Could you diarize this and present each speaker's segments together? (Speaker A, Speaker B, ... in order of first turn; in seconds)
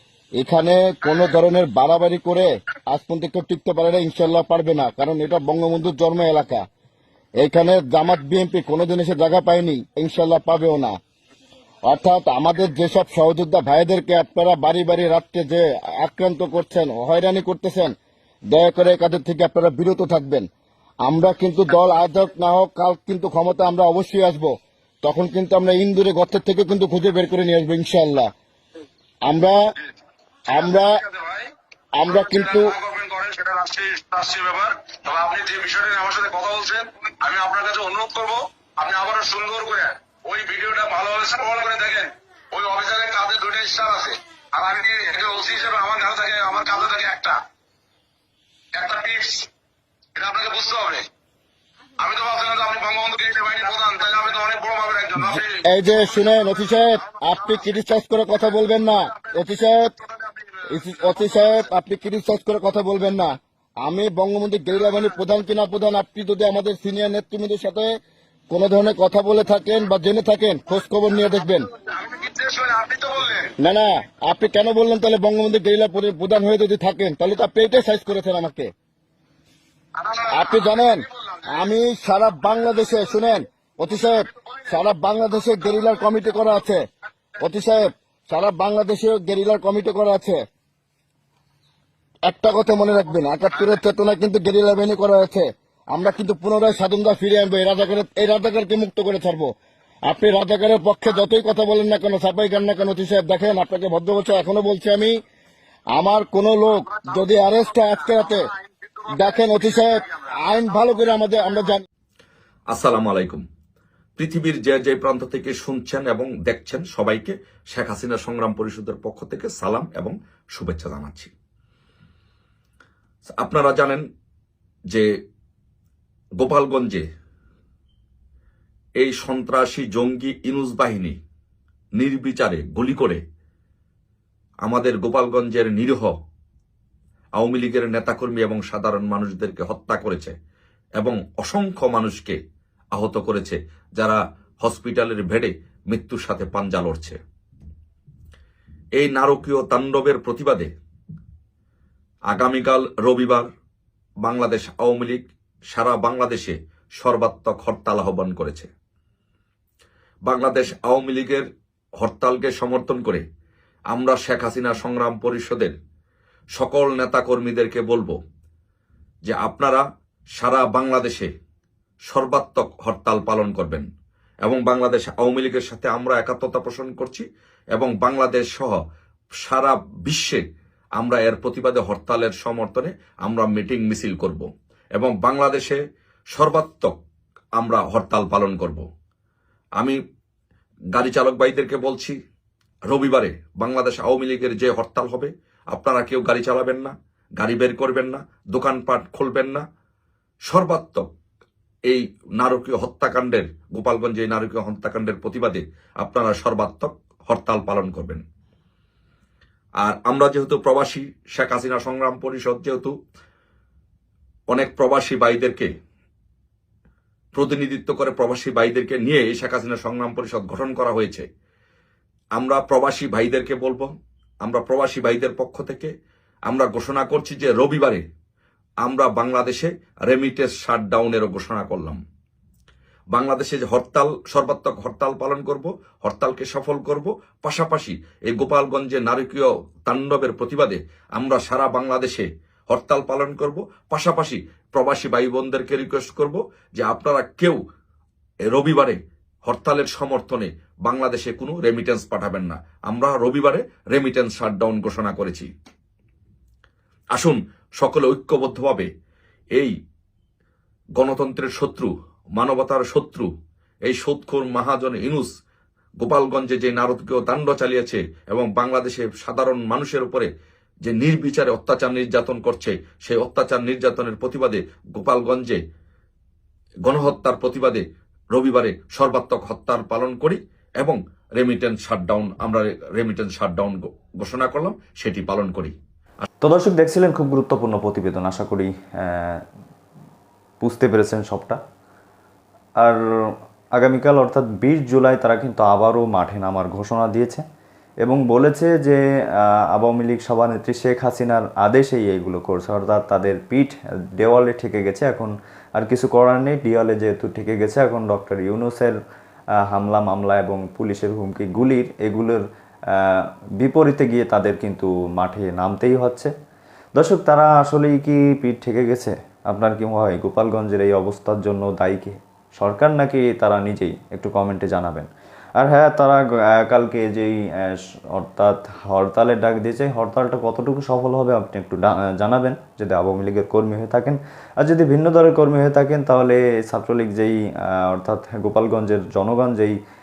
Speaker A: 0.4-6.6, 7.4-10.9, 11.9-17.9, 18.5-20.5, 21.0-28.3, 29.2-29.6, 30.5-30.9, 32.0-32.7, 55.2-59.9, 60.7-67.9, 68.5-71.7, 73.6-78.7, 80.3-86.8, 87.4-90.4, 92.3-99.5, 100.1-105.2, 105.9-108.5, 109.1-111.9
Speaker B: 30.6-31.5, 32.1-47.4, 48.8-49.5, 50.1-51.0, 52.0-57.7, 58.5-61.6, 71.2-73.5, 80.0-81.7, 84.0-84.7, 93.5-93.8, 106.8-111.6
Speaker C: 112.7-113.4, 114.2-121.3, 123.4-124.0, 126.4-127.0, 129.0-131.2, 132.0-133.2, 134.6-136.1, 137.4-140.3, 141.0-142.4, 142.9-147.2, 149.0-150.7, 152.3-153.5, 154.2-158.7, 160.3-161.5, 162.0-163.2, 163.9-165.8, 166.6-168.2, 169.3-169.8, 170.4-171.3, 172.1-173.9, 174.4-178.8, 179.4-180.4, 181.0-185.8, 186.3-186.9, 187.6-188.8, 190.9-192.2, 192.9-199.6, 200.5-201.1, 201.9-208.2, 209.8-212.9, 214.5-215.7, 217.3-221.3, 222.4-223.9, 224.4-225.9, 226.5-228.0, 228.8-232.0, 233.1-247.6, 248.5-255.5, 257.1-258.9, 261.0-263.3, 263.9-265.3, 266.0-270.3, 270.9-275.6, 276.9-285.8
Speaker D: 286.4-289.4, 290.6-291.6, 293.8-297.4, 298.0-308.9, 309.7-312.4, 312.9-316.3, 317.0-325.1, 325.6-339.8